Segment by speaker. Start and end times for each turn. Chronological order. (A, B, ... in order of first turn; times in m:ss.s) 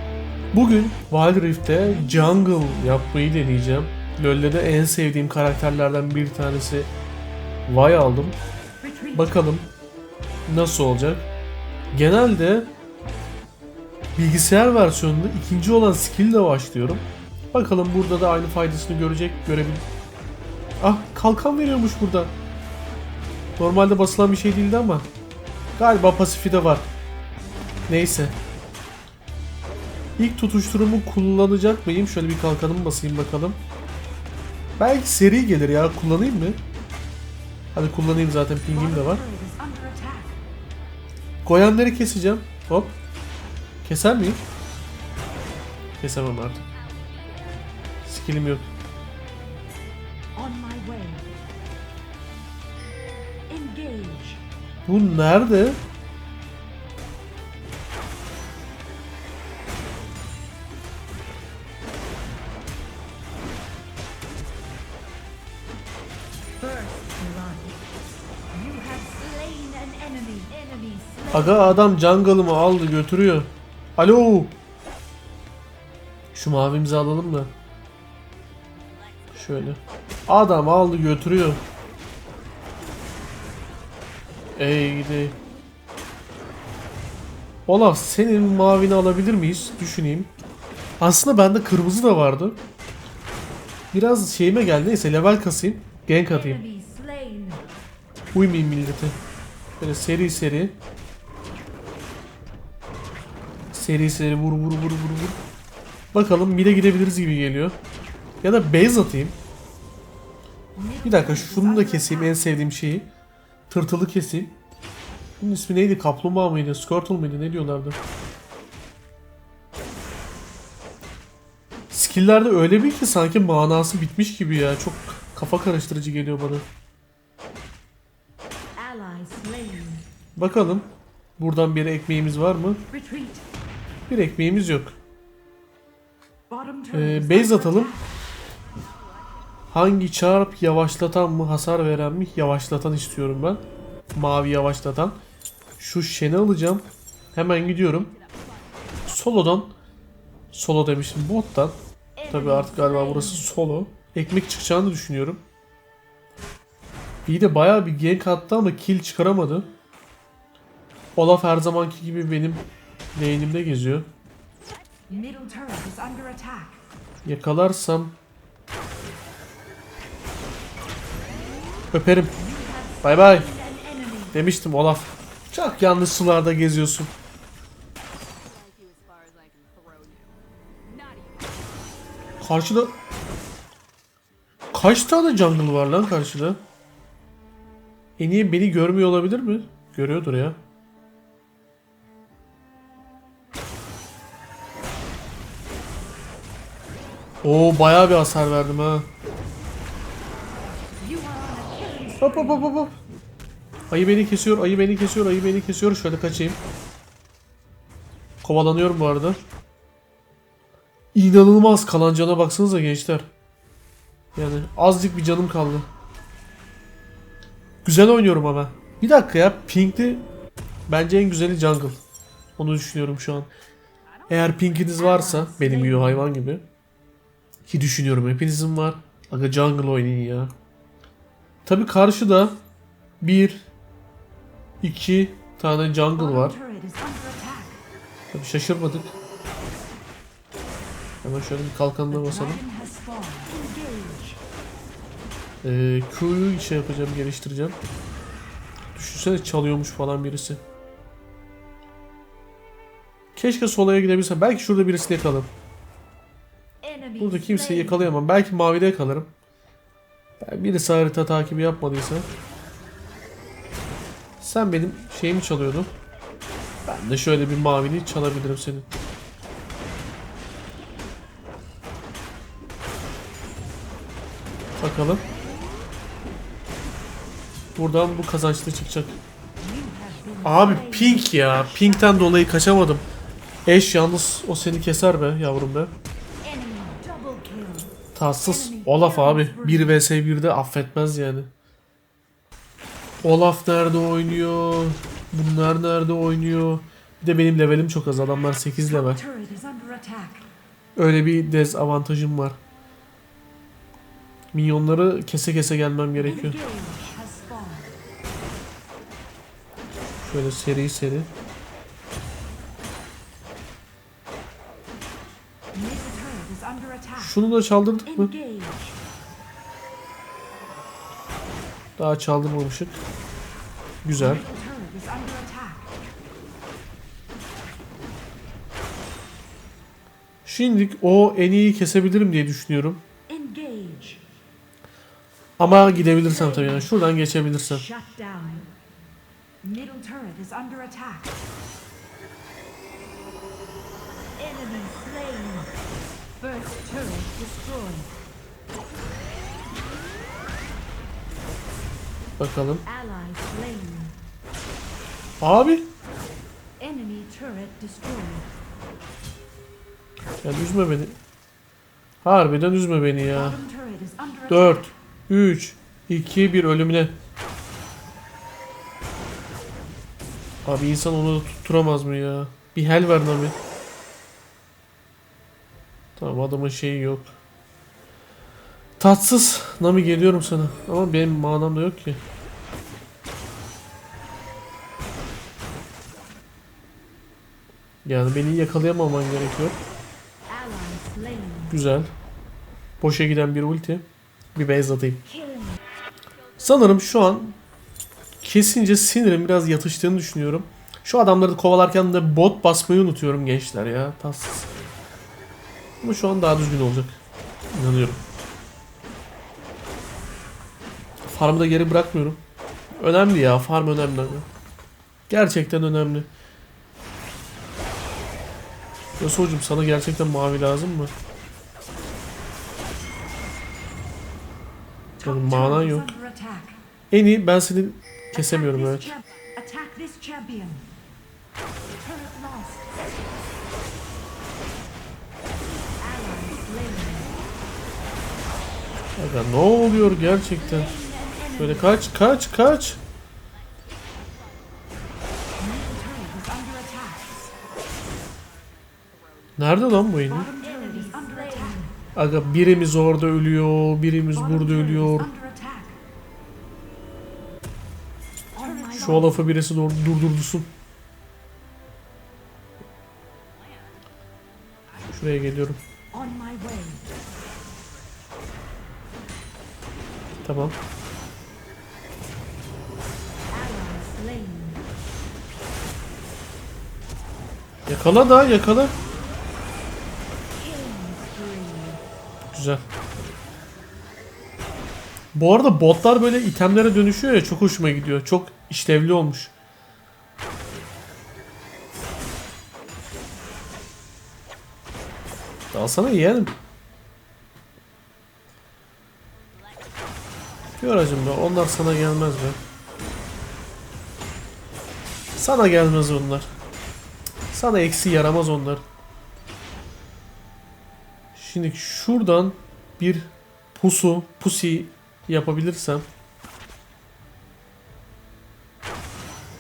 0:00.5-0:06.9 A
0:01.9-0:03.0 B
0:07.7-0:08.4 A
0:08.8-0:09.2 B
0:09.1-0:09.7 A
0:10.5-0:11.3 A
0:11.9-0:12.7 A
0:14.2-0:19.8 A
0:20.8-0:22.3 A
0:23.6-0:25.1 A
0:25.8-0:26.9 A
0:27.9-0:28.4 A
0:30.2-0:33.6 A
0:34.8-0:36.6 A
0:37.7-0:39.2 A
0:38.7-0:40.4 B
0:41.4-0:43.0 A
0:43.8-0:44.4 A
0:46.0-0:46.6 A
0:48.0-0:48.7 A
0:50.4-0:51.3 B
0:53.5-0:54.4 B
0:54.8-0:55.8 A
1:06.6-1:07.8 B
1:08.5-1:11.7 B
1:11.3-1:14.5 A
1:16.3-1:17.5 A
1:19.3-1:21.6 A
1:24.6-1:25.4 A
1:27.7-1:30.3 A
1:31.0-1:32.6 A
1:33.9-1:36.6 A
1:36.3-1:37.7 B
1:38.3-1:39.2 A
1:39.8-1:40.8 A
1:43.7-1:45.4 A
1:46.1-1:47.8 A
1:48.4-1:49.4 A
1:50.7-1:52.5 B
1:51.0-1:53.1 A
1:53.7-1:54.6 A
1:55.4-1:58.0 A
2:01.9-2:06.6 A
2:08.8-2:10.1 B
2:10.4-2:12.8 A
2:12.9-2:13.4 B
2:14.1-2:15.0 A
2:16.5-2:18.1 B
2:16.9-2:17.9 A
2:19.7-2:23.6 A
2:24.1-2:25.2 A
2:25.8-2:28.1 A
2:29.0-2:29.8 A
2:30.5-2:31.8 A
2:32.2-2:33.5 B
2:32.3-2:35.4 A
2:37.3-2:39.7 A
2:41.2-2:44.1 A
2:45.1-2:46.8 B
2:47.2-2:48.2 A
2:51.9-2:52.4 A
2:52.4-2:54.4 B
2:53.0-2:53.5 A
2:54.3-2:57.1 A
3:02.4-3:03.0 A
3:04.7-3:06.6 A
3:08.2-3:10.6 A
3:17.4-3:19.1 A
3:21.0-3:22.7 B
3:22.2-3:23.0 A
3:23.9-3:26.6 A
3:28.4-3:29.4 A
3:31.1-3:33.3 A
3:34.3-3:35.9 A
3:37.8-3:40.3 A
3:40.9-3:42.0 A
3:42.6-3:43.5 A
3:44.3-3:46.6 A
3:44.9-3:46.2 B
3:47.7-3:50.5 A
3:51.6-3:52.6 A
3:53.2-3:53.6 A
3:54.8-3:56.6 A
3:56.2-3:57.8 B
3:58.3-3:59.2 A
4:01.2-4:02.6 A
4:02.1-4:04.4 B
4:05.6-4:07.8 A
4:08.9-4:10.6 A
4:13.4-4:15.5 A
4:16.8-4:18.1 B
4:17.2-4:19.3 A
4:20.4-4:22.3 A
4:24.4-4:25.9 A
4:26.8-4:28.9 A
4:34.8-4:35.2 A
4:37.8-4:39.2 A
4:39.6-4:42.4 B
4:40.4-4:43.0 A
4:43.6-4:45.9 A
4:46.4-4:50.0 B
4:48.1-4:51.5 A
4:53.2-4:59.2 A
4:58.9-5:00.5 B
5:01.0-5:02.6 A
5:04.5-5:06.6 A
5:06.2-5:08.0 B
5:10.2-5:11.3 A
5:15.7-5:17.3 B
5:17.2-5:18.3 A
5:18.1-5:19.0 B
5:22.0-5:23.0 A
5:24.0-5:24.4 A
5:24.2-5:25.9 B
5:30.4-5:33.0 A
5:33.3-5:34.2 B
5:35.6-5:37.8 A
5:35.7-5:36.9 B
5:37.7-5:38.7 B
5:39.6-5:41.4 B
5:44.4-5:45.7 B
5:46.4-5:48.1 B
5:52.4-5:52.8 A
5:52.9-5:54.2 B
5:55.4-5:55.9 A
5:56.8-5:58.5 B
6:00.4-6:01.2 A
6:02.2-6:03.6 A
6:03.3-6:04.9 B
6:04.5-6:07.1 A
6:10.6-6:13.6 A
6:16.2-6:17.3 A
6:19.0-6:22.2 A
6:28.0-6:29.8 A
6:30.5-6:31.7 B
6:31.7-6:32.1 A
6:33.0-6:35.3 A
6:35.4-6:35.7 B
6:36.6-6:37.6 A
6:38.4-6:44.7 A
6:46.0-6:47.2 A
6:47.7-6:48.2 A
6:51.3-6:52.4 A
6:53.0-6:54.5 A
6:55.3-6:56.3 A
6:59.2-7:01.1 A
7:05.2-7:06.8 B
7:05.2-7:06.1 A
7:07.1-7:09.1 A
7:08.4-7:10.9 B
7:12.0-7:12.9 B
7:16.0-7:17.3 B
7:19.2-7:20.9 A
7:20.0-7:22.0 B
7:21.6-7:23.0 A
7:25.6-7:27.4 B
7:29.6-7:30.5 A
7:30.2-7:32.0 B
7:32.1-7:35.3 A
7:34.3-7:36.0 B
7:38.6-7:39.4 B
7:38.9-7:40.7 A
7:45.1-7:45.8 A
7:46.1-7:47.0 B
7:50.4-7:50.8 A
7:53.5-7:54.8 B
7:57.9-7:59.0 A
8:00.6-8:02.0 B
8:02.5-8:02.8 A
8:05.3-8:09.5 A
8:15.7-8:16.5 A
8:20.8-8:22.6 A
8:25.4-8:26.5 A
8:27.5-8:28.8 A
8:31.4-8:36.0 A